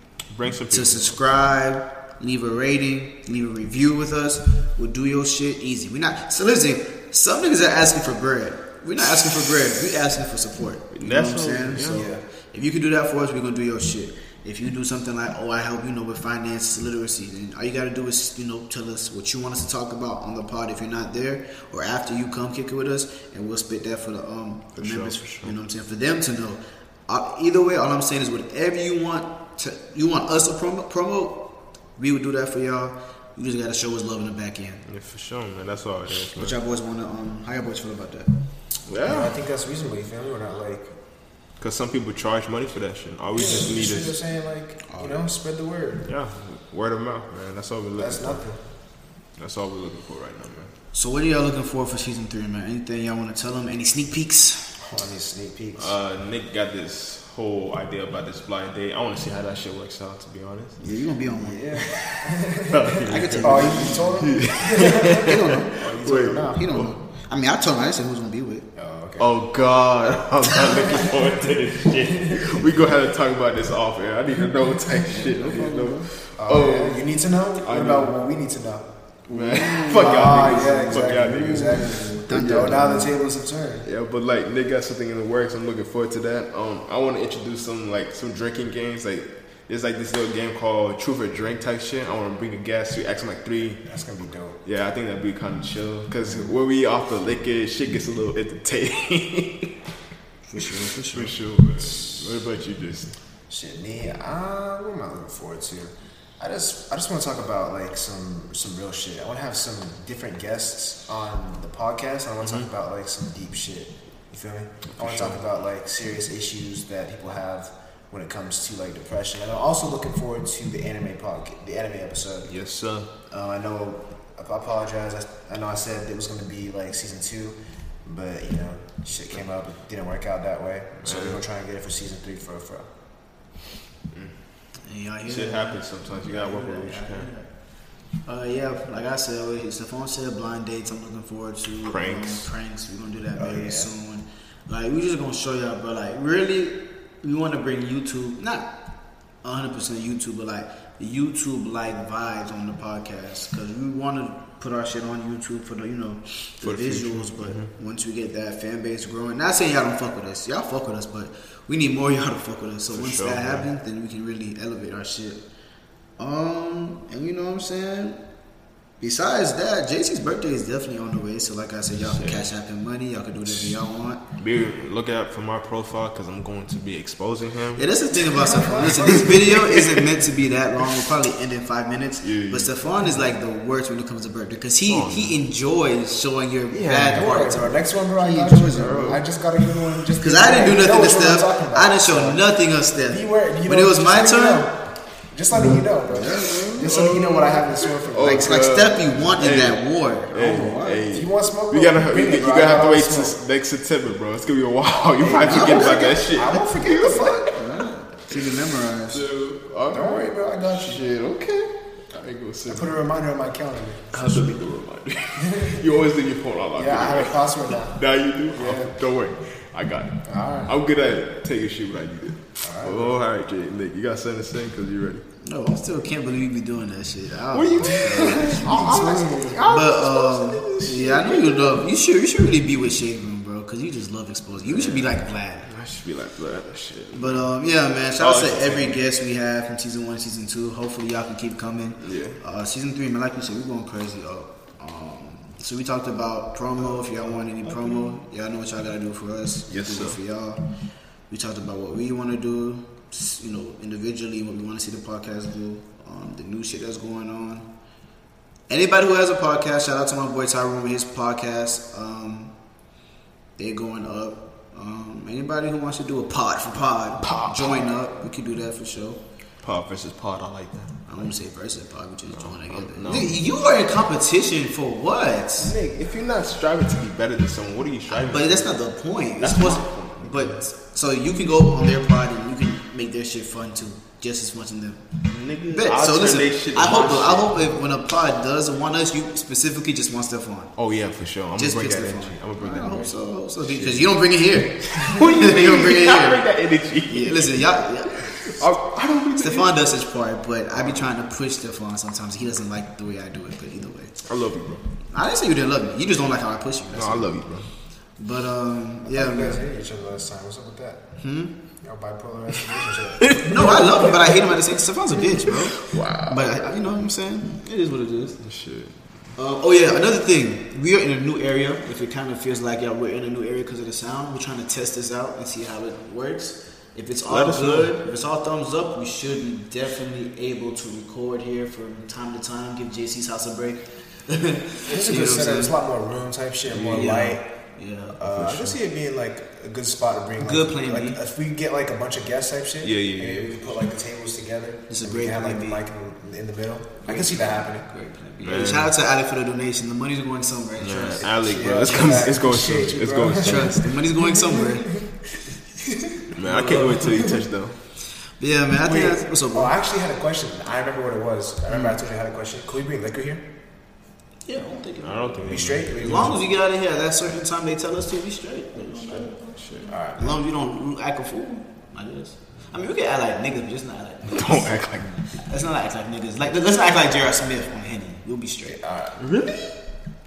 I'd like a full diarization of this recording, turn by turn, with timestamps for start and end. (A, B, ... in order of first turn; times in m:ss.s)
0:00.3-0:01.2 A
0:00.7-0:34.8 B
0:11.0-0:12.1 A
0:11.9-0:12.2 C
0:24.8-0:25.5 A
0:34.9-0:36.6 A
0:36.3-0:38.3 B
0:38.9-0:39.4 A
0:39.0-0:40.9 C
0:41.6-0:44.2 A
0:43.3-0:46.1 C
0:44.9-0:45.2 B
0:46.0-0:48.4 A
0:48.0-0:48.6 C
0:49.4-0:50.7 A
0:50.9-0:54.8 B
0:54.8-0:56.0 C
0:55.8-1:00.8 A
1:00.8-1:01.7 B
1:01.4-1:06.6 C
1:01.9-1:07.0 A
1:03.1-1:04.2 B
1:04.8-1:08.7 B
1:08.8-1:09.3 C
1:09.2-1:17.0 A
1:12.2-1:12.6 C
1:15.2-1:16.1 B
1:15.2-1:18.9 C
1:17.6-1:18.2 A
1:19.3-1:22.7 A
1:19.3-1:23.1 B
1:19.8-1:23.9 C
1:23.8-1:33.8 A
1:33.8-1:34.6 C
1:34.6-1:39.7 A
1:40.5-1:41.4 B
1:41.1-1:43.2 A
1:41.8-1:42.1 C
1:43.5-2:02.5 C
1:52.4-1:52.7 A
1:54.9-1:55.4 A
2:02.4-2:03.1 A
2:03.3-2:12.9 C
2:11.0-2:11.4 A
2:14.9-2:17.5 B
2:15.2-2:17.3 A
2:18.2-2:28.7 B
2:21.8-2:22.5 A
2:23.4-2:23.9 C
2:29.4-2:45.4 B
2:36.6-2:37.7 A
2:42.9-2:43.7 A
2:46.2-2:48.2 B
2:49.0-2:54.2 B
2:52.1-2:52.4 A
2:54.4-2:57.8 A
2:57.8-3:09.2 B
2:58.4-2:58.7 A
2:58.6-2:59.5 C
2:59.3-2:59.9 A
3:02.2-3:02.7 A
3:04.9-3:05.4 A
3:06.7-3:07.2 A
3:07.1-3:12.4 C
3:08.8-3:09.2 A
3:10.2-3:14.7 B
3:13.0-3:18.6 C
3:16.1-3:16.7 B
3:16.2-3:27.4 A
3:18.2-3:21.1 B
3:21.1-3:23.4 C
3:25.2-3:26.4 B
3:25.2-3:27.6 C
3:27.5-3:29.2 B
3:29.1-3:33.0 A
3:29.9-3:31.0 C
3:32.7-3:34.1 C
3:34.1-3:45.2 A
3:35.4-3:35.8 C
3:36.7-3:38.0 C
3:38.5-3:38.9 C
3:40.3-3:40.8 C
3:42.6-3:43.2 C
3:45.4-3:55.7 B
3:47.5-3:51.8 A
3:47.9-3:49.8 C
3:54.6-3:57.5 A
3:57.1-4:10.6 B
3:58.2-3:59.0 A
4:02.0-4:02.4 A
4:07.7-4:08.1 A
4:09.7-4:10.2 A
4:11.3-4:17.7 B
4:18.7-4:22.5 B
4:23.6-4:29.2 B
4:27.2-4:27.9 A
4:29.6-4:31.3 A
4:31.1-4:35.7 B
4:32.3-4:33.4 A
4:35.6-4:38.7 A
4:38.1-4:45.1 B
4:39.4-4:40.6 A
4:45.2-4:47.6 A
4:45.7-4:50.7 B
4:50.8-4:54.1 A
4:51.6-4:56.4 B
4:55.0-4:59.8 A
4:57.1-4:58.5 B
4:59.4-5:04.2 B
5:00.7-5:01.1 A
5:04.2-5:04.8 A
5:05.1-5:07.3 B
5:06.9-5:07.7 A
5:08.2-5:09.6 B
5:09.0-5:11.0 C
5:11.2-5:11.6 B
5:11.8-5:13.8 C
5:13.3-5:14.4 A
5:13.4-5:18.4 B
5:15.3-5:16.6 A
5:18.4-5:19.3 A
5:19.4-5:35.8 B
5:27.3-5:28.0 A
5:34.8-5:37.4 C
5:36.7-5:37.2 A
5:36.9-5:38.2 B
5:38.2-5:38.8 A
5:38.2-5:47.9 C
5:40.4-5:41.2 B
5:42.8-5:43.6 A
5:44.9-5:45.8 B
5:47.0-5:51.3 B
5:48.4-5:49.0 A
5:50.8-5:53.9 A
5:51.2-5:56.2 C
5:53.4-5:55.0 B
5:56.3-5:57.8 A
5:56.4-5:57.2 B
5:58.4-5:59.7 B
5:58.8-6:03.5 C
6:04.5-6:09.3 B
6:05.0-6:06.4 A
6:05.4-6:06.4 C
6:08.8-6:10.0 A
6:09.9-6:10.4 C
6:10.2-6:18.8 B
6:14.3-6:15.3 A
6:18.7-6:19.2 C
6:19.2-6:19.8 A